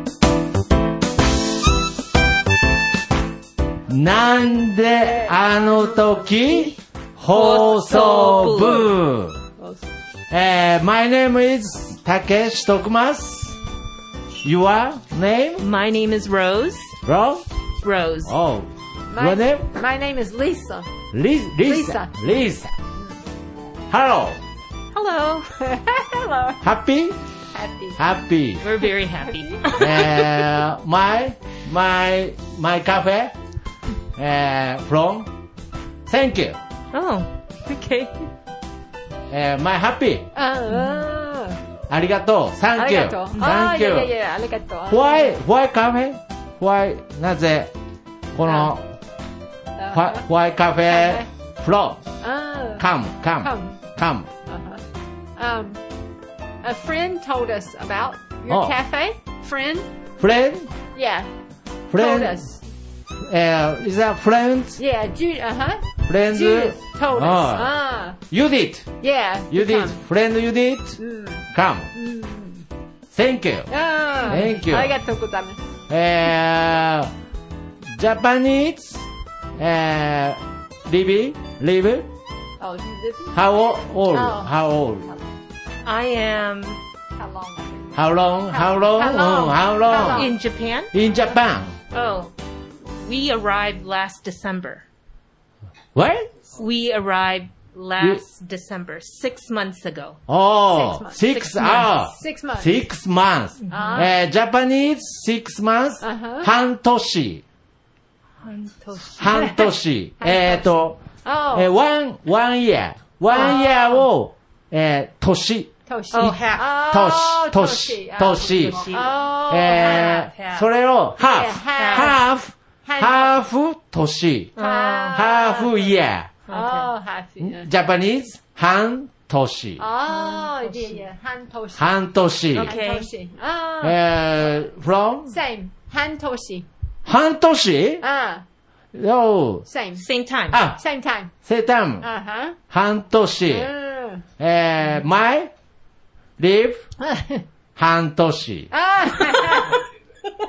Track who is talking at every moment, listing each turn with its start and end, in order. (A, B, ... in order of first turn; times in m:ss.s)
0:03.9-0:09.4 A
0:05.0-0:06.7 B
0:07.3-0:09.0 C
0:09.6-0:09.8 B
0:10.3-0:13.6 A
0:14.4-0:15.7 A
0:15.6-0:17.0 C
0:17.0-0:17.4 A
0:17.8-0:18.4 C
0:18.2-0:19.7 A
0:19.1-0:21.0 B
0:21.0-0:22.7 A
0:21.7-0:22.1 B
0:23.9-0:24.4 A
0:24.9-0:25.5 C
0:25.6-0:26.6 B
0:26.6-0:27.2 A
0:27.5-0:28.0 B
0:28.0-0:28.7 A
0:28.6-0:30.4 C
0:29.2-0:29.6 B
0:29.8-0:33.3 A
0:34.2-0:35.3 A
0:36.1-0:36.6 A
0:36.9-0:38.1 C
0:39.3-0:40.3 A
0:40.4-0:41.6 B
0:40.7-0:41.0 C
0:41.9-0:44.2 A
0:42.8-0:45.4 B
0:43.3-0:43.6 C
0:44.9-0:47.7 A
0:48.3-0:48.8 A
0:48.5-0:48.7 B
0:49.8-0:50.3 B
0:49.9-0:52.2 A
0:50.9-0:51.3 B
0:52.2-0:52.9 B
0:52.8-0:54.3 A
0:53.4-0:53.8 B
0:54.5-0:54.8 B
0:55.4-0:55.8 B
0:56.6-0:59.9 B
0:58.5-0:58.8 A
1:00.2-1:00.9 A
1:01.0-1:01.3 B
1:01.9-1:02.4 A
1:02.0-1:02.6 B
1:03.3-1:04.8 A
1:04.8-1:08.2 B
1:06.0-1:11.9 A
1:09.0-1:10.0 B
1:11.0-1:12.7 B
1:13.1-1:13.8 A
1:13.7-1:15.7 B
1:14.3-1:15.0 A
1:15.9-1:17.1 A
1:18.0-1:19.0 A
1:19.6-1:22.1 A
1:22.6-1:23.4 B
1:23.3-1:25.1 A
1:24.2-1:24.5 B
1:25.8-1:26.8 C
1:27.2-1:28.0 B
1:27.9-1:30.3 A
1:28.5-1:30.3 B
1:29.8-1:30.9 C
1:30.9-1:31.8 A
1:31.9-1:32.3 C
1:33.0-1:34.8 C
1:36.0-1:36.3 A
1:36.5-1:40.2 C
1:40.3-1:47.4 A
1:40.7-1:42.8 B
1:41.4-1:42.0 C
1:43.7-1:44.1 C
1:43.7-1:44.0 B
1:46.0-1:46.5 B
1:48.4-1:49.6 C
1:49.2-1:58.9 A
1:50.2-1:51.7 B
1:53.4-1:54.1 B
1:55.8-2:00.0 B
1:56.1-1:56.7 C
1:58.4-2:00.7 C
1:59.5-2:06.6 A
2:01.2-2:02.2 B
2:01.7-2:02.2 C
2:02.8-2:03.4 B
2:04.6-2:05.2 C
2:04.6-2:05.9 B
2:06.5-2:06.9 C
2:06.6-2:07.7 B
2:07.4-2:09.9 A
2:09.8-2:14.0 B
2:10.1-2:11.0 C
2:11.8-2:12.7 A
2:12.6-2:13.1 C
2:13.8-2:15.4 A
2:15.3-2:16.7 B
2:17.1-2:18.1 A
2:18.0-2:18.4 B
2:19.0-2:19.7 A
2:19.7-2:20.0 B
2:20.0-2:20.6 C
2:20.5-2:20.8 A
2:20.8-2:21.3 B
2:21.4-2:22.1 A
2:22.0-2:22.6 B
2:22.6-2:23.8 A
2:23.5-2:24.2 B
2:24.4-2:25.5 A
2:26.4-2:26.9 A
2:27.0-2:27.4 B
2:27.8-2:28.7 A
2:28.7-2:29.8 B